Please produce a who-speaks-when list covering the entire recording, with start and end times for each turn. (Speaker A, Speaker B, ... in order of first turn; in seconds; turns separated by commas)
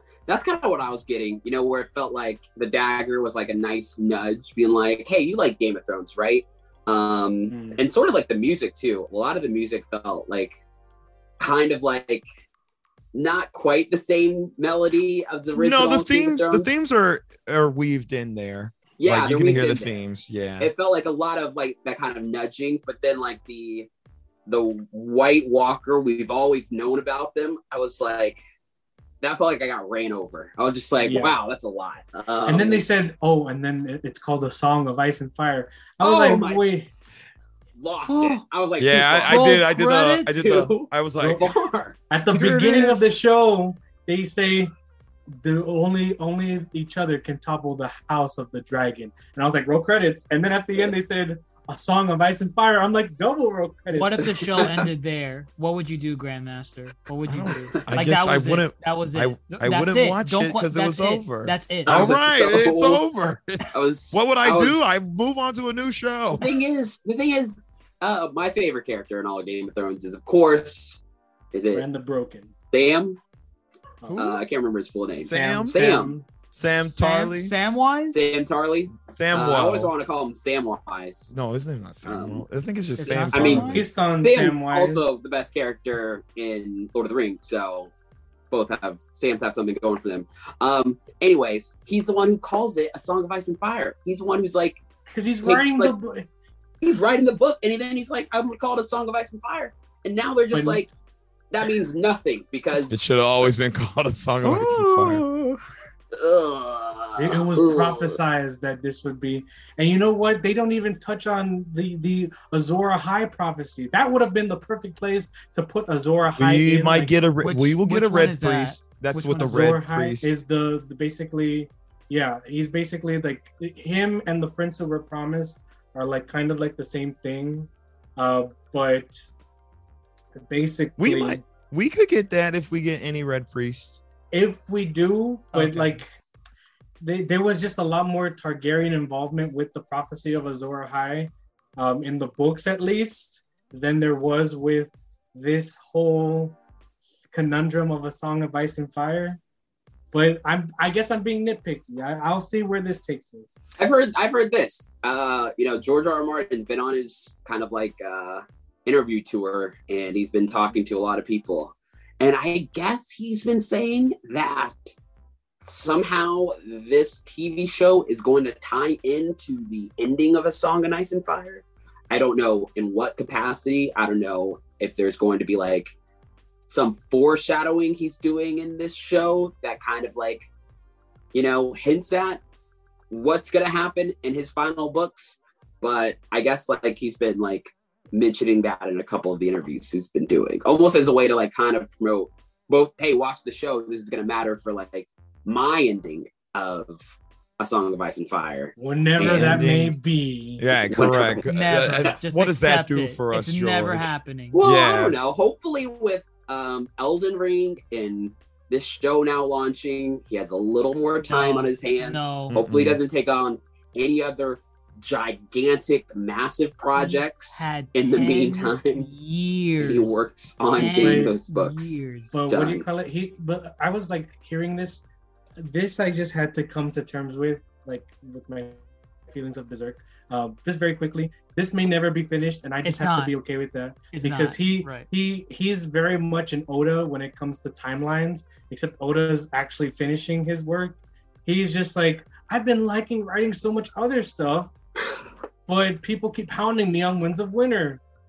Speaker A: 0.3-10.5, Speaker B: 7.5-7.8, Speaker A: 11.4-12.2, Speaker A: 13.1-16.7, Speaker C: 15.5-20.7, Speaker A: 19.0-19.9, Speaker A: 20.6-23.9, Speaker A: 24.5-28.4, Speaker A: 29.2-32.9, Speaker B: 31.0-31.4, Speaker B: 32.5-36.9, Speaker A: 36.0-36.6, Speaker A: 37.8-39.6, Speaker D: 38.1-38.4, Speaker C: 38.8-41.5, Speaker D: 39.3-40.5, Speaker A: 40.3-42.0, Speaker B: 41.2-41.5, Speaker B: 42.1-44.7, Speaker C: 42.3-43.2, Speaker B: 45.3-54.9, Speaker D: 53.9-62.1, Speaker C: 57.2-66.4, Speaker A: 61.9-63.0, Speaker A: 63.7-64.8, Speaker A: 66.4-71.0, Speaker A: 71.5-71.8, Speaker B: 71.7-72.5, Speaker A: 72.7-73.2, Speaker B: 74.0-74.3, Speaker C: 74.1-74.4, Speaker A: 74.1-76.1, Speaker C: 75.2-75.9, Speaker B: 75.3-76.3, Speaker C: 76.5-77.5, Speaker D: 76.8-78.2, Speaker A: 78.1-81.3, Speaker C: 79.1-79.9, Speaker C: 81.3-83.9, Speaker A: 82.0-82.4, Speaker D: 83.0-83.7, Speaker A: 83.1-87.9, Speaker B: 83.5-85.2, Speaker A: 88.5-94.8, Speaker B: 95.1-96.3, Speaker A: 95.4-95.9, Speaker A: 96.8-100.9, Speaker B: 100.5-100.9, Speaker A: 101.5-103.0, Speaker C: 102.9-105.3, Speaker A: 106.1-108.2, Speaker B: 107.2-117.2, Speaker C: 116.4-120.4, Speaker D: 117.4-119.7, Speaker B: 119.4-129.3, Speaker B: 130.4-131.4, Speaker C: 131.0-134.0, Speaker B: 134.3-136.1, Speaker D: 135.5-136.0, Speaker B: 137.0-146.6, Speaker B: 147.3-149.4, Speaker B: 150.1-153.6, Speaker A: 153.8-164.9, Speaker A: 165.6-175.9, Speaker A: 176.7-180.5, Speaker A: 181.3-182.4, Speaker A: 183.1-199.6, Speaker B: 198.8-201.2, Speaker C: 199.2-200.0, Speaker C: 200.6-205.2, Speaker A: 200.9-201.5, Speaker D: 201.4-204.6, Speaker A: 204.5-219.1, Speaker D: 211.3-212.6, Speaker C: 212.5-213.0, Speaker D: 216.9-222.4, Speaker A: 219.8-222.8, Speaker B: 221.0-221.3, Speaker B: 222.3-225.0, Speaker B: 225.6-244.7, Speaker D: 232.8-233.3, Speaker D: 234.1-235.1, Speaker B: 245.7-248.0